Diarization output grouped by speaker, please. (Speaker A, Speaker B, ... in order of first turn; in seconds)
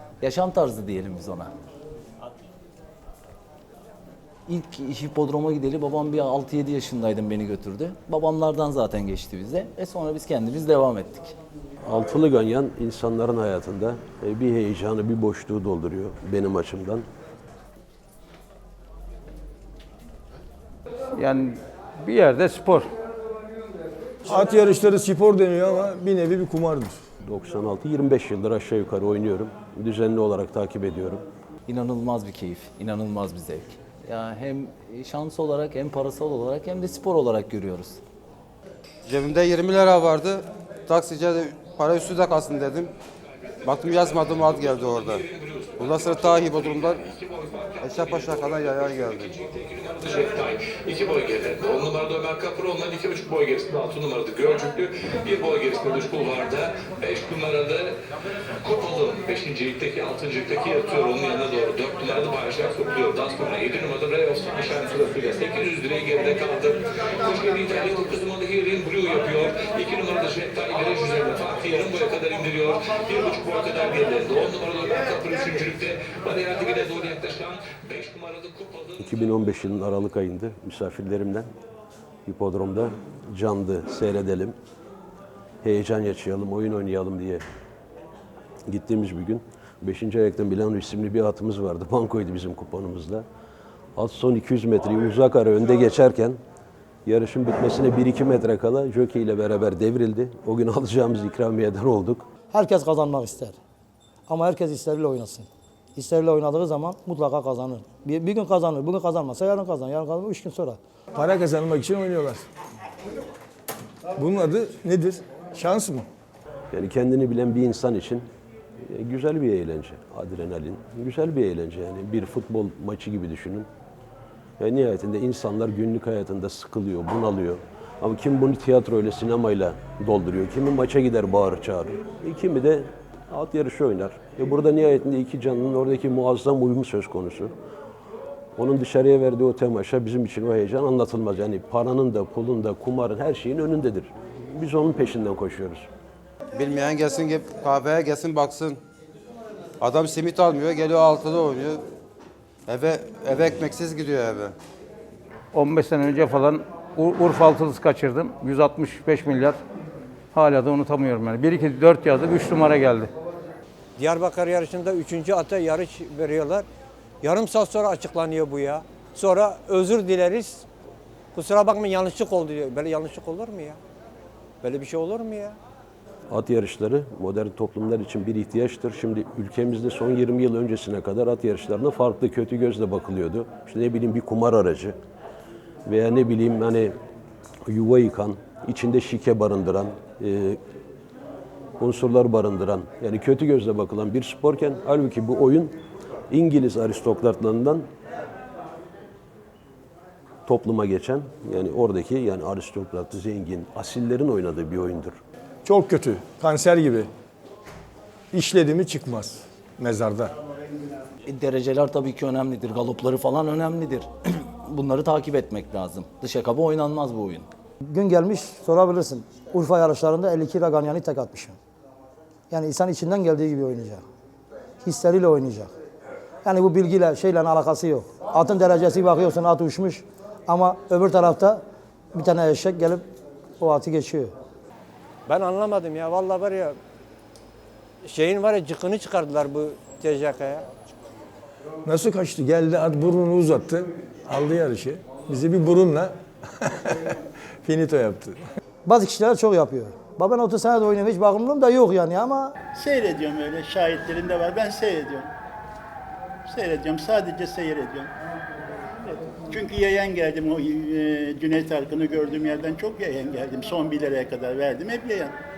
Speaker A: 0.2-1.5, 4.5-11.3, 31.7-38.0, 211.2-217.5
Speaker B: 11.8-17.1, 27.2-31.2, 79.0-81.5, 82.2-84.5, 85.6-87.4, 88.7-93.2, 94.0-96.4, 97.0-102.2, 116.7-118.2, 118.8-123.7, 124.6-137.5, 138.6-145.9, 176.3-184.9, 185.8-186.9, 187.7-190.6, 191.8-195.8, 196.3-197.8, 200.4-205.2
Speaker C: 21.1-22.9, 155.5-159.6, 160.3-163.1
Speaker D: 24.2-27.0, 111.1-112.5, 114.2-116.1, 205.6-207.1, 208.3-210.3, 241.8-248.4
Speaker E: 39.0-42.9, 43.6-45.2, 45.8-47.1, 47.8-49.3, 146.5-148.8, 149.8-151.8, 152.7-154.5
Speaker F: 45.1-48.3, 49.2-58.0, 58.6-79.0
Speaker G: 102.5-103.5, 104.3-110.8, 217.8-221.6, 222.5-224.0, 224.8-225.7, 226.4-231.6, 232.1-233.0, 233.6-234.3, 248.8-252.5
Speaker H: 164.0-166.7, 167.2-170.7, 171.3-173.8, 174.6-175.6, 235.3-236.8, 238.0-240.6
Speaker I: 252.7-255.3, 256.4-258.1, 259.0-265.3